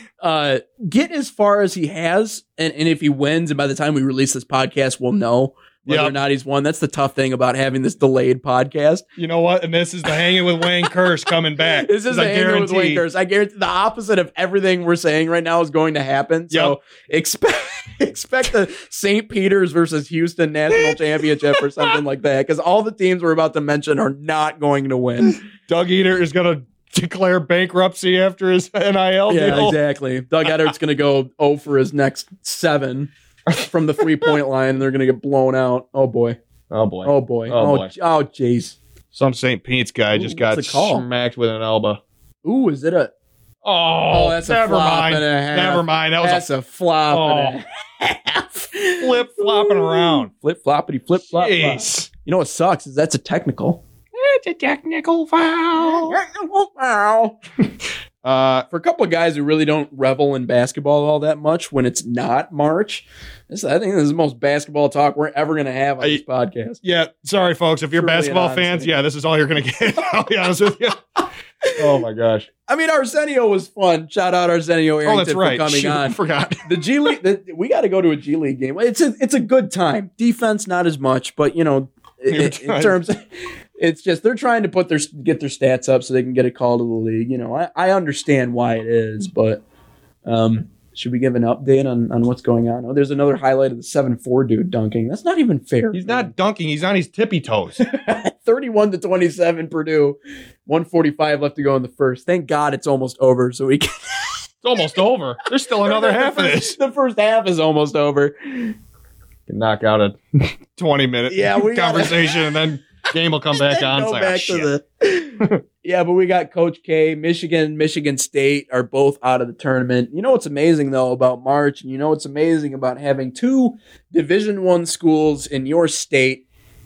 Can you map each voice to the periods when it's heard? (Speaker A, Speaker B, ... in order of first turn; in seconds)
Speaker A: 0.2-9.0, 11.8-25.4, 29.3-36.4, 37.0-38.8, 40.1-41.0, 42.4-43.1, 44.1-53.8, 55.8-57.4, 58.7-66.8, 67.9-68.9, 72.7-83.2, 83.8-89.6, 90.2-96.3, 97.8-104.3, 105.8-108.7, 111.3-112.4, 113.5-126.4
Speaker B: 5.8-6.2, 9.2-13.0, 16.5-16.8, 25.5-29.8, 36.7-37.9, 39.1-42.0, 43.6-46.5, 47.1-47.5, 49.0-50.3, 51.3-52.1, 54.1-56.2, 58.2-58.6, 66.8-71.0, 71.7-72.5, 75.0-77.2, 82.3-83.0, 95.9-97.8, 104.6-106.8, 109.5-114.7